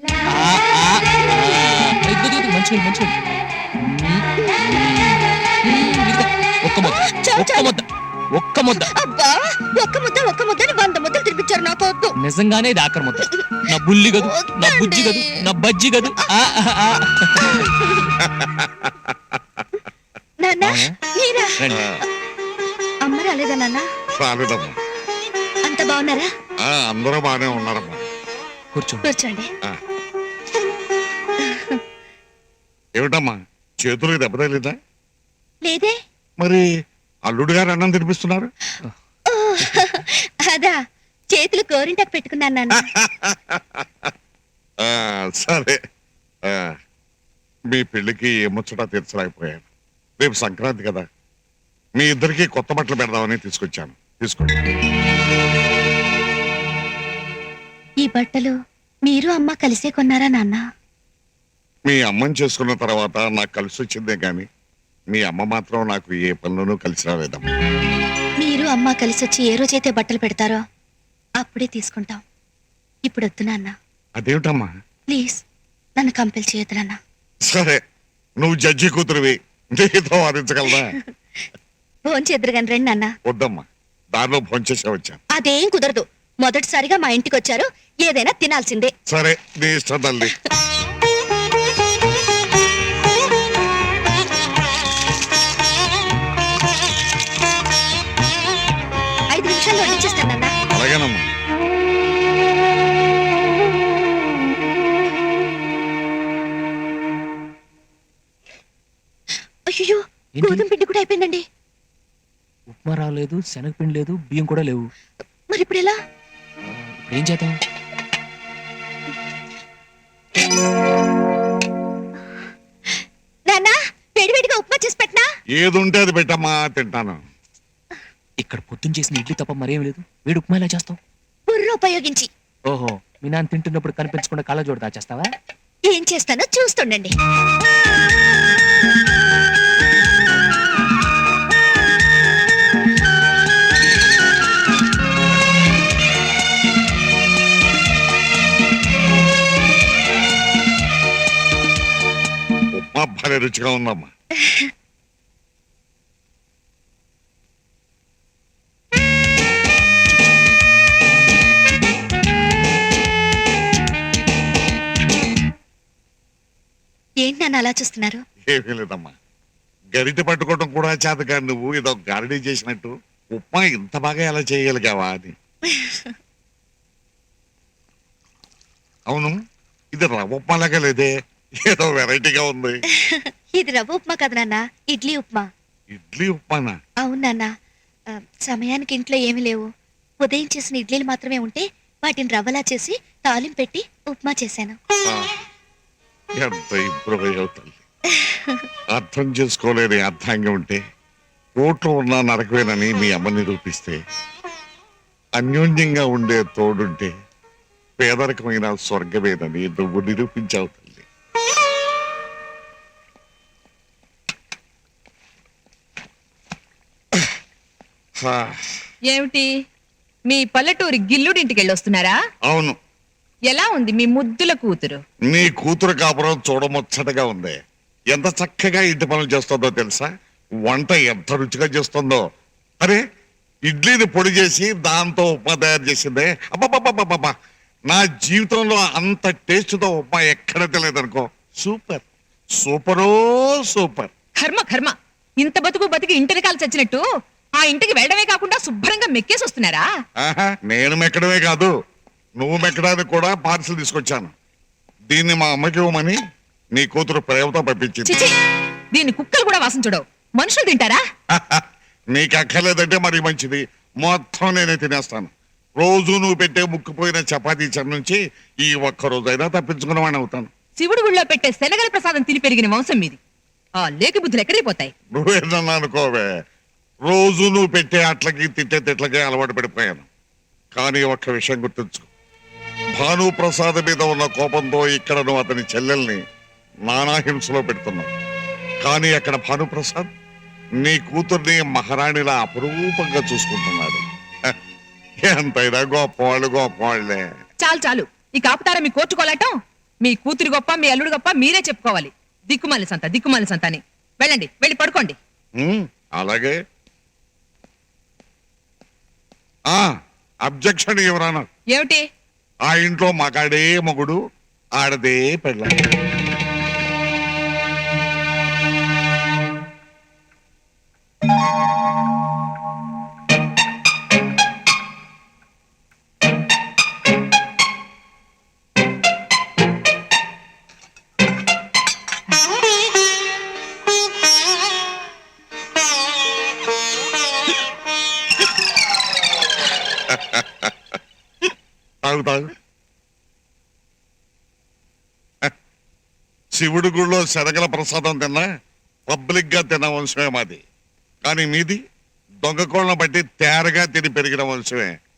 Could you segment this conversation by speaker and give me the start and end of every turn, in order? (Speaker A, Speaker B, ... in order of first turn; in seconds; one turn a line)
Speaker A: 0.3-3.2
Speaker A: 3.8-8.9
Speaker B: 6.8-7.7
Speaker B: 8.7-12.1
Speaker A: 12.2-17.7
Speaker B: 14.1-15.3
Speaker B: 17.5-17.8
Speaker C: 18.2-19.6
Speaker B: 20.4-21.6
Speaker A: 20.6-20.9
Speaker A: 21.6-21.8
Speaker C: 21.7-22.0
Speaker B: 23.0-23.9
Speaker C: 24.2-24.8
Speaker B: 25.6-26.3
Speaker C: 26.6-28.0
Speaker A: 28.7-29.1
Speaker B: 29.0-29.5
Speaker B: 31.4-31.8
Speaker C: 33.0-34.7
Speaker B: 35.6-35.9
Speaker C: 36.4-36.7
Speaker C: 37.3-38.5
Speaker B: 39.3-40.8
Speaker B: 41.3-42.8
Speaker C: 42.8-43.8
Speaker C: 44.8-45.8
Speaker C: 46.5-46.7
Speaker C: 47.7-49.6
Speaker C: 50.2-51.0
Speaker C: 52.0-54.6
Speaker B: 58.0-58.5
Speaker B: 59.0-60.6
Speaker C: 61.9-64.4
Speaker C: 65.1-67.5
Speaker B: 68.4-70.6
Speaker B: 71.4-72.2
Speaker B: 73.0-73.7
Speaker C: 74.2-74.7
Speaker B: 75.1-75.4
Speaker B: 76.0-77.0
Speaker C: 77.5-77.8
Speaker C: 78.4-80.9
Speaker B: 82.0-83.1
Speaker C: 83.2-85.2
Speaker B: 85.3-88.9
Speaker C: 89.1-90.3
Speaker B: 99.3-100.5
Speaker C: 100.7-101.2
Speaker B: 109.7-111.4
Speaker A: 110.3-110.6
Speaker A: 112.7-114.9
Speaker B: 115.5-115.9
Speaker A: 116.6-117.6
Speaker B: 123.5-125.2
Speaker C: 125.5-127.2
Speaker A: 128.4-131.0
Speaker B: 131.5-132.3
Speaker A: 132.7-135.3
Speaker B: 135.9-137.1
Speaker C: 152.7-154.1
Speaker B: 167.2-168.2
Speaker C: 168.4-169.1
Speaker C: 169.9-175.3
Speaker B: 175.7-176.1
Speaker C: 179.1-179.3
Speaker C: 179.9-181.1
Speaker C: 181.6-182.8
Speaker B: 183.0-185.5
Speaker C: 185.9-186.8
Speaker B: 187.0-187.5
Speaker B: 188.1-189.7
Speaker B: 190.2-194.8
Speaker C: 196.4-197.8
Speaker C: 198.9-200.8
Speaker C: 201.6-204.0
Speaker C: 205.3-207.1
Speaker C: 208.0-211.0
Speaker C: 218.2-218.7
Speaker D: 219.1-219.5
Speaker D: 220.3-222.2
Speaker C: 222.4-222.7
Speaker D: 223.5-225.0
Speaker C: 225.3-227.5
Speaker C: 228.1-230.1
Speaker C: 230.6-232.2
Speaker C: 233.7-237.3
Speaker C: 237.9-242.0
Speaker C: 242.6-244.1
Speaker D: 244.4-247.0
Speaker D: 247.6-249.8
Speaker C: 250.2-251.7
Speaker C: 252.4-254.3
Speaker C: 255.1-256.2
Speaker C: 256.7-258.2
Speaker D: 258.1-258.3
Speaker D: 258.9-261.0
Speaker C: 261.3-270.5
Speaker D: 270.8-273.2
Speaker D: 273.8-274.9
Speaker C: 275.1-276.3
Speaker C: 277.1-280.1
Speaker C: 280.7-282.1
Speaker C: 283.0-286.2
Speaker C: 286.9-288.1
Speaker C: 288.8-290.1
Speaker C: 290.8-294.5
Speaker C: 295.2-297.2
Speaker D: 297.6-299.5
Speaker D: 300.0-305.1
Speaker C: 305.6-306.6
Speaker C: 310.4-311.5
Speaker D: 311.7-312.0
Speaker C: 312.6-314.2
Speaker C: 314.8-315.7
Speaker C: 340.1-340.7
Speaker C: 342.0-342.5
Speaker C: 346.5-348.5
Speaker C: 349.1-350.6
Speaker C: 351.2-351.8
Speaker C: 352.4-354.9